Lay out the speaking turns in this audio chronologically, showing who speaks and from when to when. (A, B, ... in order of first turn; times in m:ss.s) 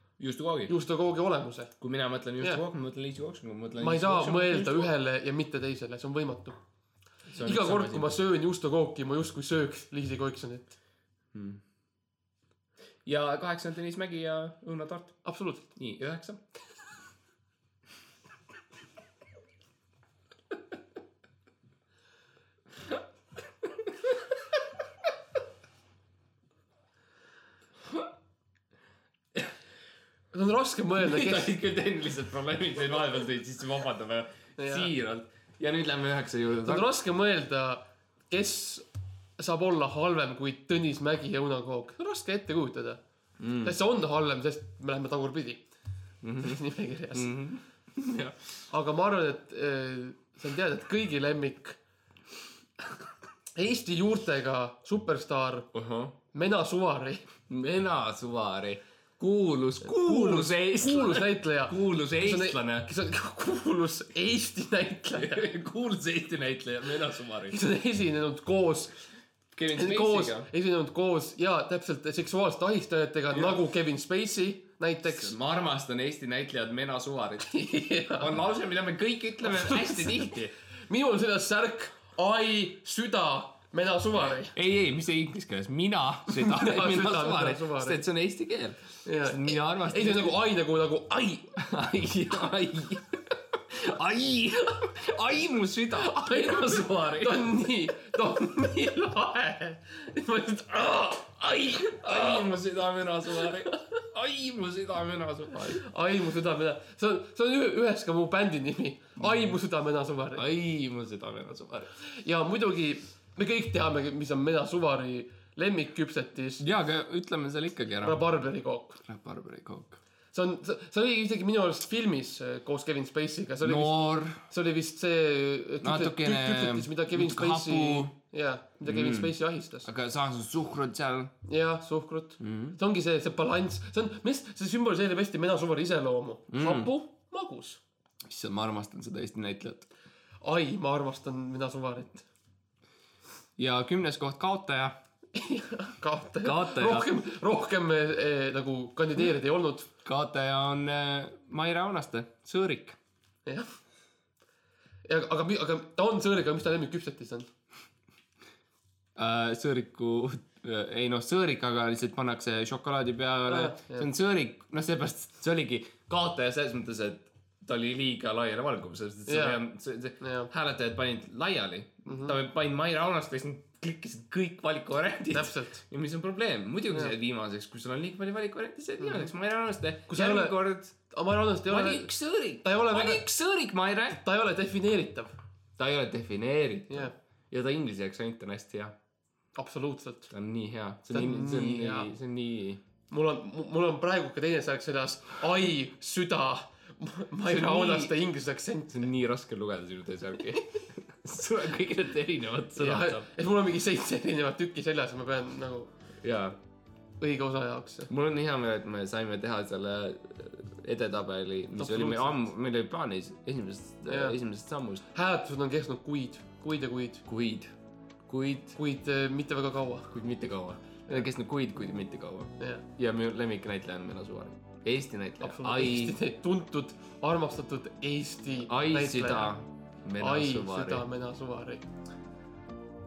0:00.2-0:00.7 A
0:00.7-0:01.8 B
0:01.8-0:04.9 A
0:03.8-0:06.6 B
0:07.3-0:08.2 A
0:07.4-0:10.8 B
0:11.3-0:11.6 A
0:13.0-0:15.2 A
0:15.2-0:15.7 B
0:15.8-0:16.4 A
0:23.9-0:24.2 A
0:30.3-0:31.5 B
0:31.0-0:36.9 A
0:34.6-0:34.9 B
0:36.6-0:38.9 B
0:39.4-0:43.0 B
0:43.4-0:43.8 A
0:43.6-0:45.6 B
0:46.2-0:48.6 A
0:46.4-0:47.4 B
0:48.7-0:51.8 B
0:53.6-0:55.7 B
0:55.7-0:56.2 A
0:56.3-0:57.2 B
0:57.5-1:02.9 A
0:59.8-1:05.5 B
1:05.1-1:07.6 A
1:07.5-1:09.0 B
1:09.5-1:10.5 A
1:09.7-1:15.3 B
1:13.3-1:13.6 A
1:15.0-1:17.6 A
1:17.4-1:18.4 B
1:18.1-1:20.5 A
1:19.4-1:24.6 B
1:24.5-1:30.4 A
1:26.3-1:28.0 B
1:29.0-1:31.5 B
1:31.6-1:37.5 A
1:35.9-1:42.5 B
1:41.7-1:45.8 A
1:43.4-1:43.8 B
1:45.8-1:50.4 B
1:49.2-1:49.6 A
1:50.4-1:51.9 A
1:52.0-1:56.6 B
1:56.6-1:58.3 A
1:58.0-1:59.0 B
1:59.0-2:00.0 A
2:00.3-2:09.9 B
2:03.6-2:04.4 A
2:05.8-2:08.1 A
2:08.8-2:11.3 A
2:11.4-2:17.8 B
2:12.4-2:12.8 A
2:16.5-2:16.9 A
2:18.2-2:19.9 A
2:20.4-2:22.3 B
2:23.6-2:25.0 A
2:25.3-2:29.9 B
2:26.4-2:27.1 A
2:30.0-2:33.0 A
2:35.0-2:37.5 B
2:39.2-3:01.0 A
2:43.5-2:44.1 B
2:49.3-2:49.6 B
2:50.2-2:50.5 B
2:52.1-2:52.4 B
2:55.3-2:55.8 B
2:59.0-2:59.3 B
3:00.1-3:03.2 B
3:01.7-3:04.2 A
3:04.1-3:05.3 B
3:05.8-3:09.0 A
3:09.6-3:10.3 B
3:10.3-3:12.8 A
3:11.1-3:12.1 B
3:13.1-3:19.1 B
3:17.5-3:18.2 A
3:18.9-3:23.3 A
3:22.8-3:25.9 B
3:26.2-3:26.6 A
3:27.2-3:28.1 B
3:28.1-3:35.0 A
3:31.8-3:32.4 B
3:34.1-3:34.4 B
3:35.1-3:37.2 B
3:37.2-3:37.7 A
3:38.3-3:38.8 A
3:38.8-3:40.1 B
3:40.1-3:46.2 A
3:45.4-3:49.5 B
3:48.6-3:51.1 A
3:50.2-3:51.8 B